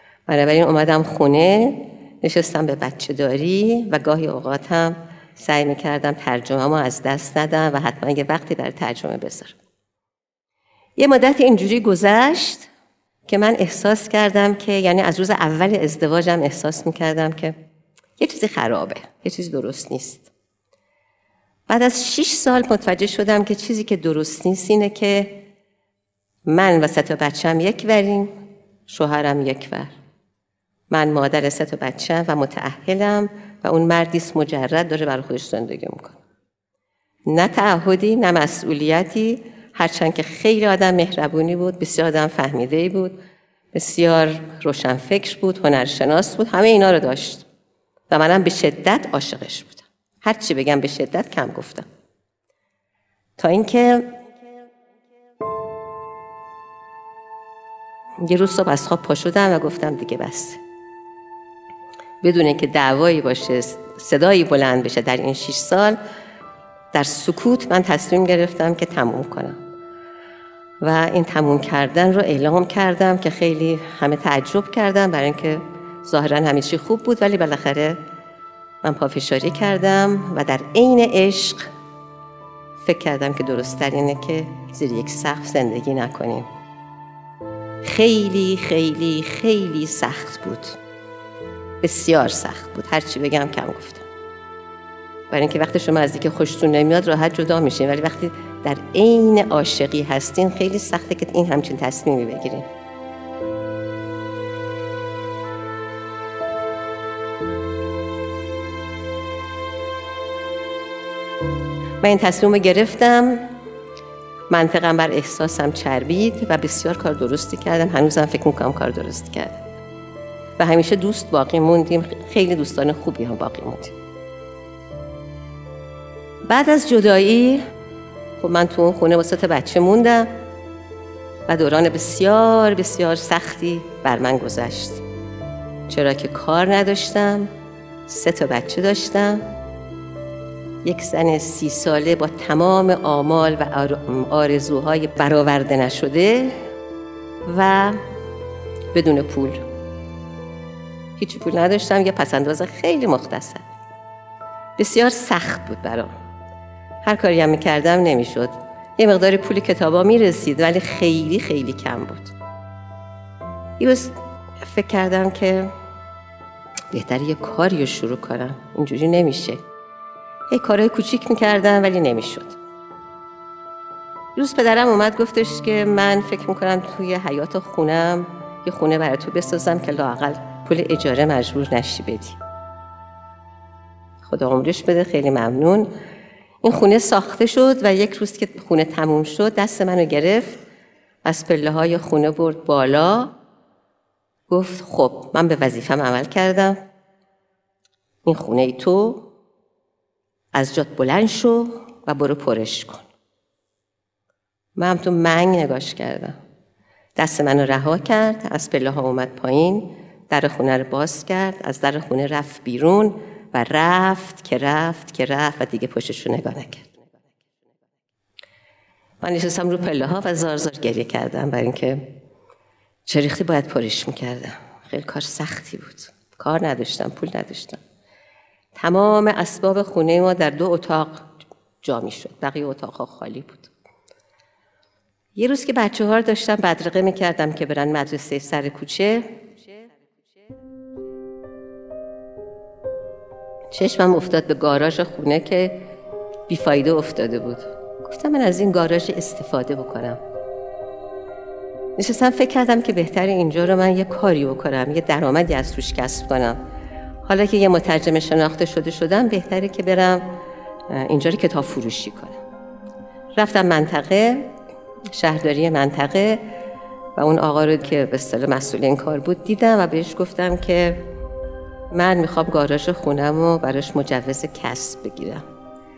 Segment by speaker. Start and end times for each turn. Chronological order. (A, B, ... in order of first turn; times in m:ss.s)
0:00.3-0:09.6 A
0:11.0-0:12.7 A
0:13.3-0:17.5 A
0:18.2-0:20.3 A
0:21.7-0:25.4 A
0:26.5-0:28.3 A
0:28.9-0:29.9 A
0:30.9-0:36.2 A
0:37.3-0:43.2 A
0:43.7-0:47.4 A
0:48.1-0:51.8 A
0:53.4-0:54.2 A
0:58.2-1:00.6 A
1:02.2-1:06.0 A
1:06.9-1:09.6 A
1:10.8-1:18.0 A
1:18.8-1:21.7 A
1:22.8-1:26.5 A
1:27.8-1:30.8 A
1:31.8-1:34.0 A
1:35.3-1:42.7 A
1:52.0-1:53.5 A
1:54.5-1:59.6 A
2:00.6-2:03.9 A
2:06.5-2:07.6 A
2:08.4-2:10.3 A
2:11.5-2:15.0 A
2:15.9-2:17.5 A
2:18.1-2:19.4 A
2:20.8-2:26.6 A
2:27.4-2:28.0 A
2:28.9-2:29.6 A
2:31.2-2:33.6 A
2:34.8-2:36.1 A
2:37.0-2:42.3 A
2:43.8-2:45.7 A
2:46.9-2:49.6 A
2:50.5-2:52.6 A
2:54.3-3:02.4 A
3:04.2-3:05.9 A
3:06.6-3:10.6 A
3:11.2-3:13.3 A
3:14.5-3:16.8 A
3:18.2-3:19.3 A
3:20.5-3:23.0 A
3:24.8-3:26.4 A
3:27.2-3:37.3 A
3:39.2-3:42.1 A
3:43.0-3:47.8 A
3:48.7-3:51.3 A
3:51.8-3:53.7 A
3:55.4-3:59.9 A
4:03.7-4:05.9 A
4:06.5-4:10.2 A
4:12.0-4:16.6 A
4:17.2-4:20.3 A
4:20.9-4:22.4 A
4:23.4-4:24.5 A
4:25.1-4:26.4 A
4:27.2-4:31.0 A
4:31.9-4:35.4 A